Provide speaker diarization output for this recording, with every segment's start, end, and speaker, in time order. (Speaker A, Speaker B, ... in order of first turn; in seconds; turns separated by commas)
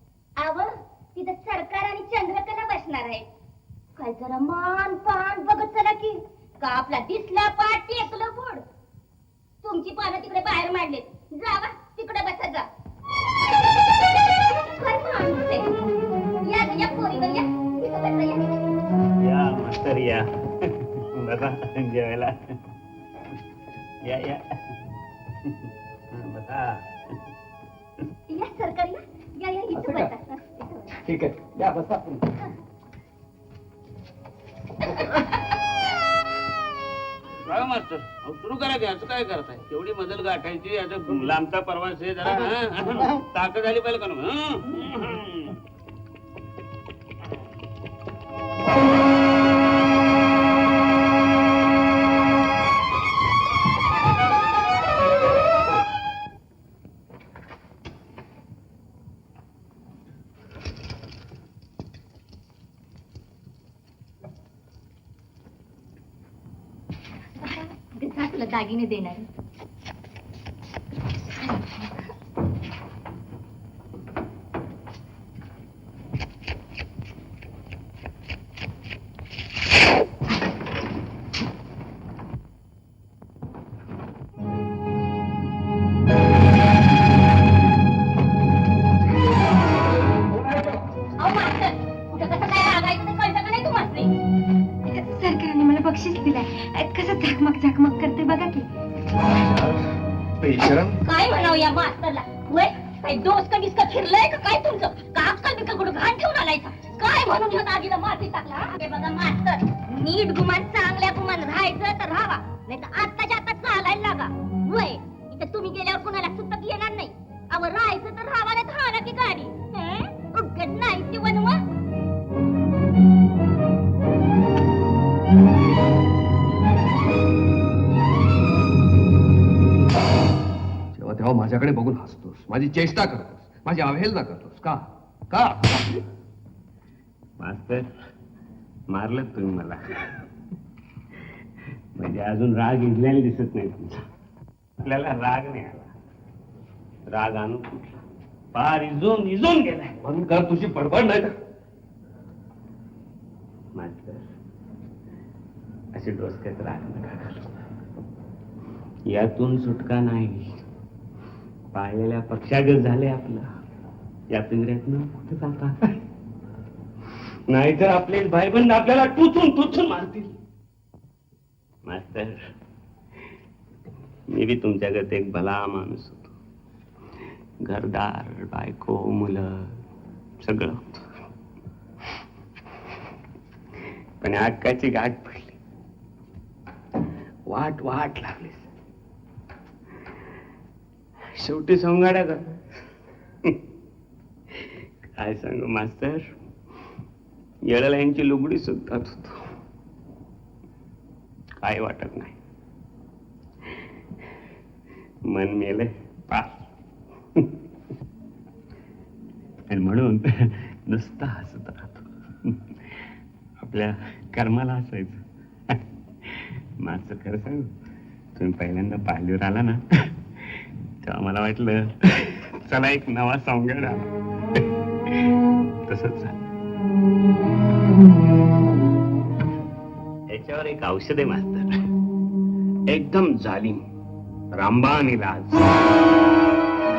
Speaker A: 0.4-3.2, Speaker A: 4.0-8.6, Speaker A: 9.6-12.7, Speaker A: 14.1-15.7, Speaker A: 16.4-18.5, Speaker B: 19.2-22.5, Speaker B: 24.0-24.4, Speaker B: 25.4-26.8, Speaker A: 28.3-30.9, Speaker C: 29.7-30.1, Speaker C: 31.0-32.2, Speaker D: 37.4-45.5, Speaker A: 67.4-69.3, Speaker A: 71.4-71.9, Speaker A: 91.2-94.1, Speaker E: 95.0-98.7, Speaker C: 99.2-99.8, Speaker C: 100.4-101.0, Speaker A: 101.0-121.6, Speaker C: 130.9-135.8, Speaker B: 137.4-137.9, Speaker B: 138.9-139.8, Speaker B: 141.9-144.0, Speaker B: 144.8-145.9, Speaker B: 147.1-148.0, Speaker B: 148.5-150.0, Speaker C: 150.0-151.3, Speaker B: 153.7-154.3, Speaker B: 155.9-157.5, Speaker B: 159.1-160.6, Speaker B: 161.7-163.4, Speaker B: 164.3-166.0, Speaker B: 167.5-170.3, Speaker B: 171.8-172.4, Speaker B: 174.3-176.3, Speaker B: 177.6-179.8, Speaker B: 180.4-181.1, Speaker B: 184.2-185.6, Speaker B: 187.5-188.7, Speaker B: 191.3-192.6, Speaker B: 194.5-196.3, Speaker B: 197.7-199.4, Speaker B: 201.6-202.4, Speaker B: 205.3-206.7, Speaker B: 209.7-213.0, Speaker B: 213.6-217.7, Speaker B: 218.3-219.8, Speaker B: 220.4-225.3, Speaker B: 225.9-226.4, Speaker B: 230.3-231.7, Speaker B: 232.9-233.8, Speaker B: 234.5-236.0